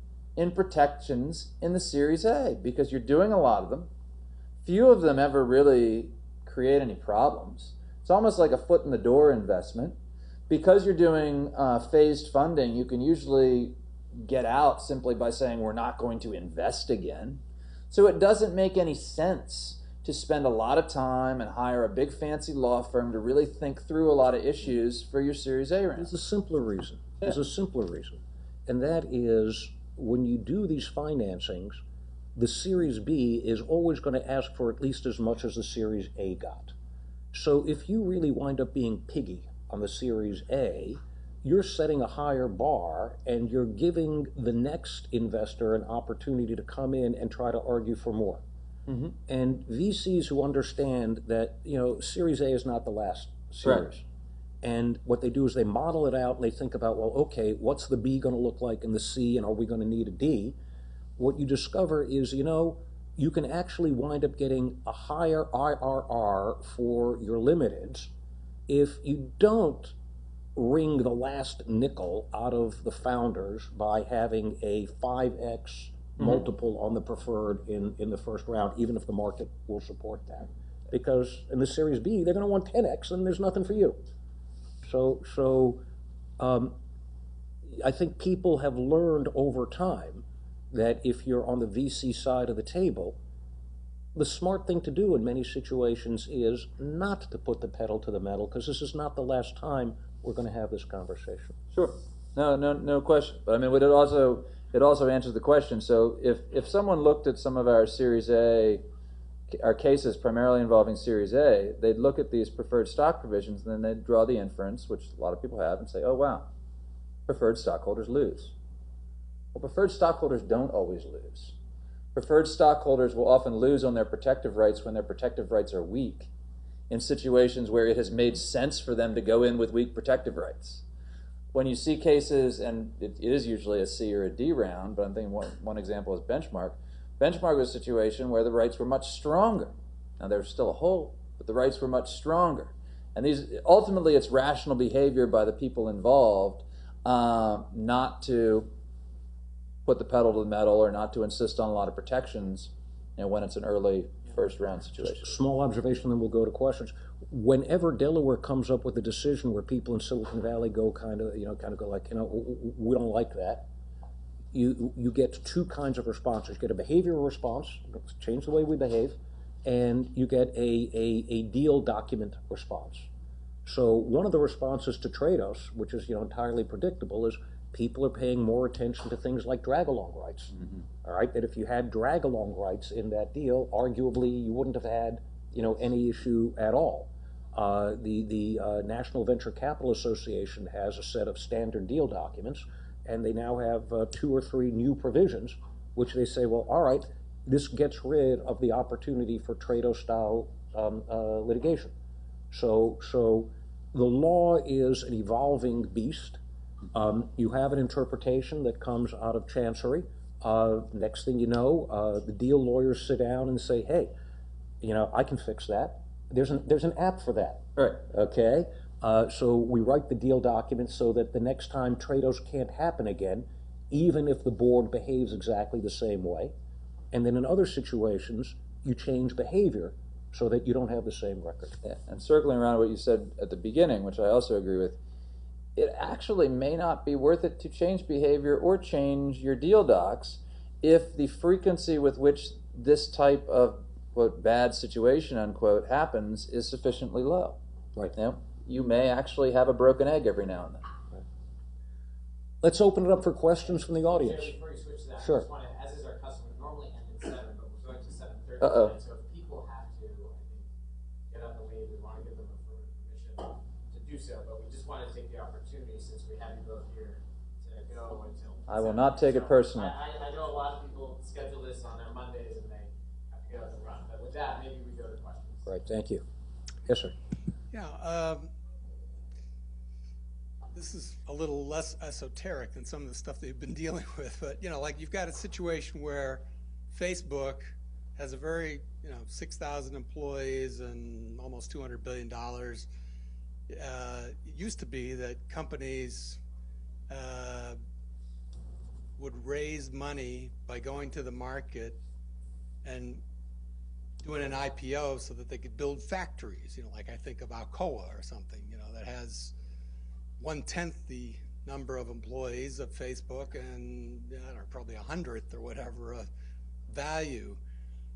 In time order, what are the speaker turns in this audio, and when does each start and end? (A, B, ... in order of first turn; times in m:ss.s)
0:00.4-0:03.9 A
0:04.6-0:10.0 A
0:10.5-0:26.1 A
0:26.0-0:31.8 B
0:32.3-0:36.7 B
0:37.3-0:48.4 B
0:48.9-0:49.2 A
0:49.3-0:54.0 B
0:53.6-0:53.9 A
0:54.6-1:00.6 B
1:01.2-1:08.1 B
1:08.7-1:09.9 B
1:10.5-1:24.0 B
1:16.2-1:16.4 A
1:24.8-1:25.8 B
1:26.4-1:26.8 B
1:27.6-1:33.2 B
1:34.1-1:41.6 B
1:41.7-1:48.8 A
1:49.5-1:56.5 A
1:57.3-1:58.5 A
1:59.5-2:01.6 A
2:02.1-2:06.3 A
2:06.9-2:10.8 A
2:11.5-2:28.7 A
2:29.8-2:35.3 A
2:35.0-2:43.7 B
2:44.5-2:53.1 B
2:53.6-3:21.9 B
3:22.5-3:26.4 B
3:26.9-3:34.1 B
3:34.8-3:46.5 B
3:47.1-3:51.8 B
3:51.8-3:55.0 A
3:55.8-4:07.6 A
4:08.1-4:10.8 A
4:12.6-4:14.6 B
4:14.2-4:20.6 C
4:15.2-4:15.5 B
4:18.6-4:19.0 A
4:21.3-4:35.6 C
4:28.7-4:30.0 A
4:35.6-4:36.2 B
4:36.8-4:37.1 B
4:37.7-4:38.5 D
4:40.7-4:52.9 D
4:53.7-4:56.4 D
4:57.1-4:57.8 D
4:59.2-5:02.0 D
5:02.8-5:03.2 D
5:04.2-5:09.5 D
5:10.4-5:16.3 D
5:16.9-5:17.6 D